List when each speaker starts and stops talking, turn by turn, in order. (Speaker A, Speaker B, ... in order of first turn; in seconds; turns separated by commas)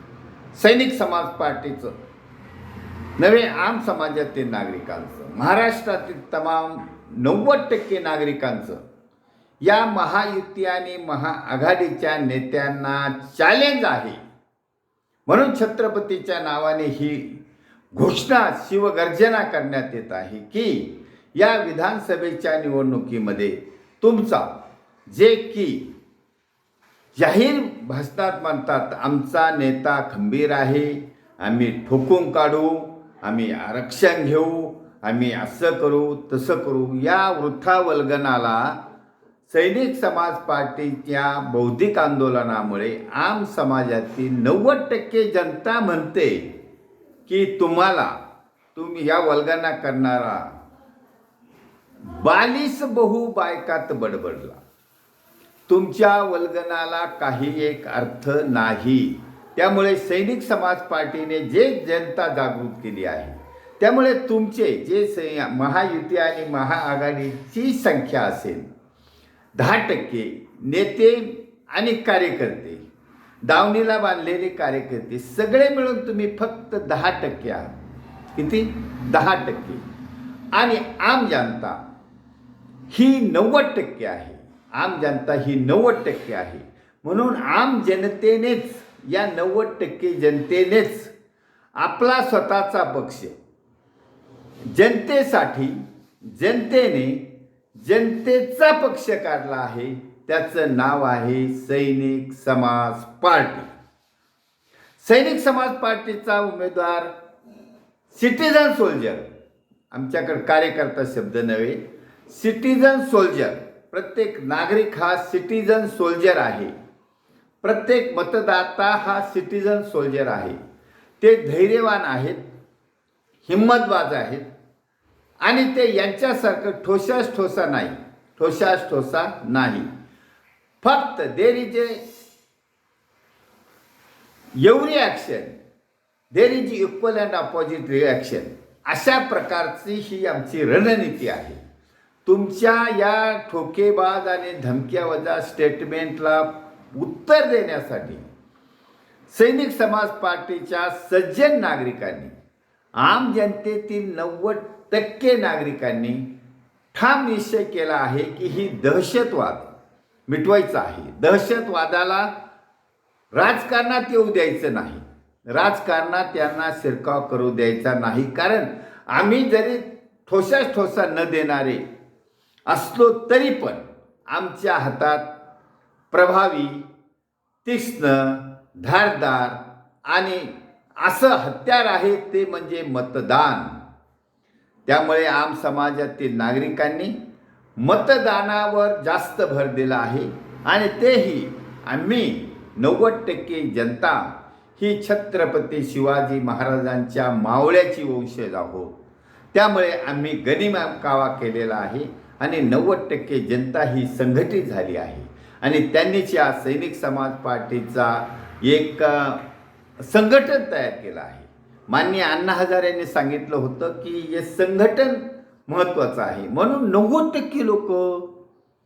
Speaker A: 0.5-1.9, Speaker A: 3.2-8.8, Speaker A: 9.6-14.2, Speaker A: 15.3-17.4, Speaker A: 17.9-24.5, Speaker A: 25.1-25.9, Speaker A: 27.1-38.8, Speaker A: 39.5-46.5, Speaker A: 47.2-48.2, Speaker A: 48.7-50.6, Speaker A: 52.0-54.6, Speaker A: 55.7-68.7, Speaker A: 69.5-72.8, Speaker A: 73.4-77.7, Speaker A: 78.3-79.8, Speaker A: 80.5-81.8, Speaker A: 82.9-91.1, Speaker A: 91.8-93.3, Speaker A: 94.7-97.2, Speaker A: 97.8-103.7, Speaker A: 105.0-107.1, Speaker A: 108.1-109.3, Speaker A: 109.9-116.7, Speaker A: 117.6-120.6, Speaker A: 121.2-122.4, Speaker A: 123.5-124.5, Speaker A: 125.4-129.9, Speaker A: 130.8-132.0, Speaker A: 134.6-135.5, Speaker A: 136.3-141.6, Speaker A: 142.2-148.2, Speaker A: 149.3-152.3, Speaker A: 153.0-156.2, Speaker A: 156.9-159.7, Speaker A: 160.3-162.3, Speaker A: 163.3-171.8, Speaker A: 172.7-175.2, Speaker A: 176.1-176.8, Speaker A: 177.6-183.7, Speaker A: 184.9-187.1, Speaker A: 187.8-198.9, Speaker A: 199.5-209.4, Speaker A: 210.0-218.3